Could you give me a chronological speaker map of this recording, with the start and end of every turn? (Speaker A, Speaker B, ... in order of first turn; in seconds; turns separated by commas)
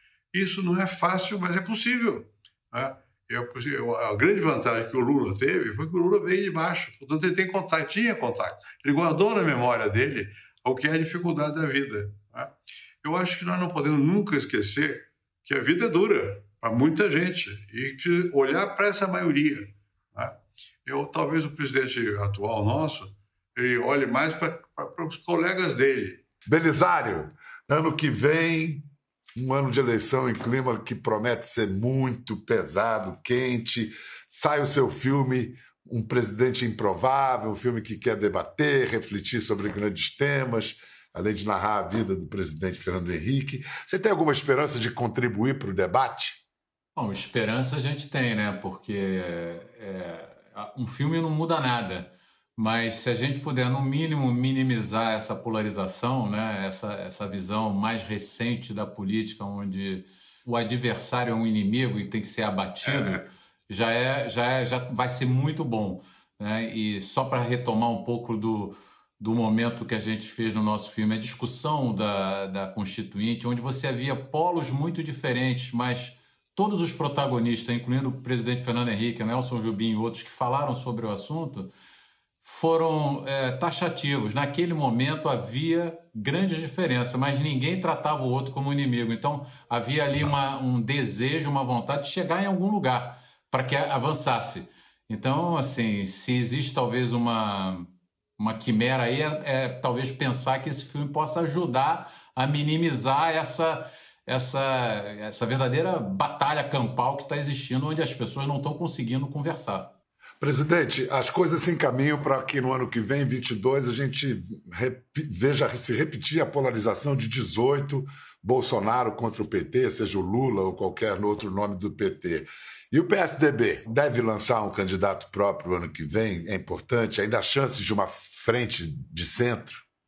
Speaker A: 0.3-26.2, Speaker B: 26.5-46.4, Speaker C: 47.0-81.7, Speaker A: 62.8-63.2, Speaker C: 82.4-109.9, Speaker B: 110.4-129.8